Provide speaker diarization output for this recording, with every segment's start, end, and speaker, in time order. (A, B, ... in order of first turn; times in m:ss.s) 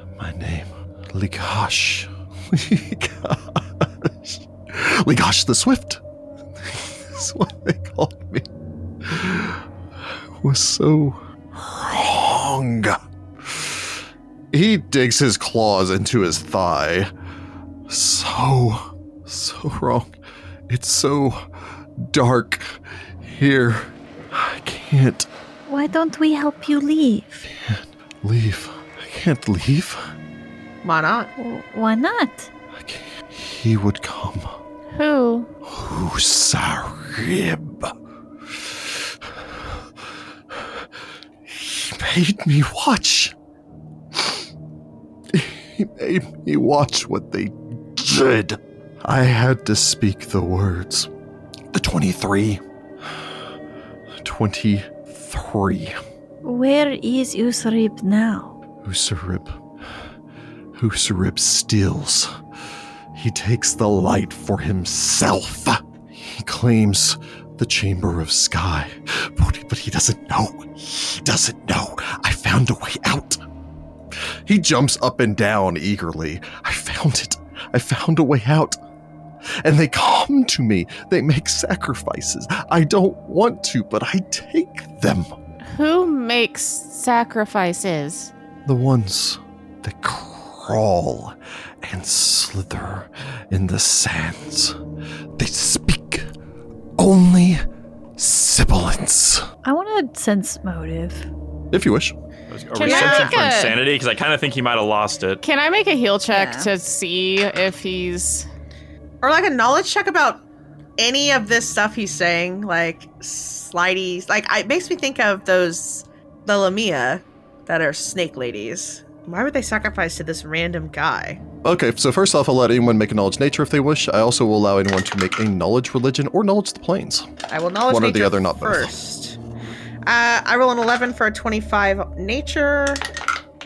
0:00.2-0:06.0 A
0:06.6-0:08.5 A
0:09.0-0:17.1 A
0:17.9-0:20.1 A
0:20.7-0:21.4 A
0:22.0-0:25.3 A
0:25.7-0:27.5 B
0:27.5-0:30.1 A
0:30.8-0:31.3 C
0:31.4-0:32.5 B
0:32.7-0:34.6 A
0:34.9-0:35.5 D
0:35.6-0:37.9 A
0:38.5-0:39.7 A
0:40.5-0:40.8 A
0:41.5-0:43.3 A
0:44.1-0:44.4 A
0:45.3-0:51.1 A
0:51.7-0:53.2 A
0:54.2-0:55.9 A
0:56.4-0:58.6 B
0:58.8-0:59.6 A
1:00.7-1:02.3 A
1:03.1-1:13.4 A
1:14.1-1:18.8 A
1:19.6-1:25.3 A
1:25.7-1:28.3 D
1:28.6-1:34.8 A
1:35.4-1:36.3 A
1:37.0-1:37.6 A
1:38.2-1:39.5 A
1:39.6-1:41.3 B
1:41.7-1:42.1 A
1:42.5-1:45.4 E
1:42.7-1:43.8 D
1:42.8-1:43.4 C
1:45.4-1:48.5 D
1:46.3-1:46.7 B
1:49.2-1:50.4 C
1:51.0-2:01.4 C
2:01.6-2:07.3 A
2:07.5-2:09.4 C
2:07.9-2:08.9 A
2:10.0-2:13.0 C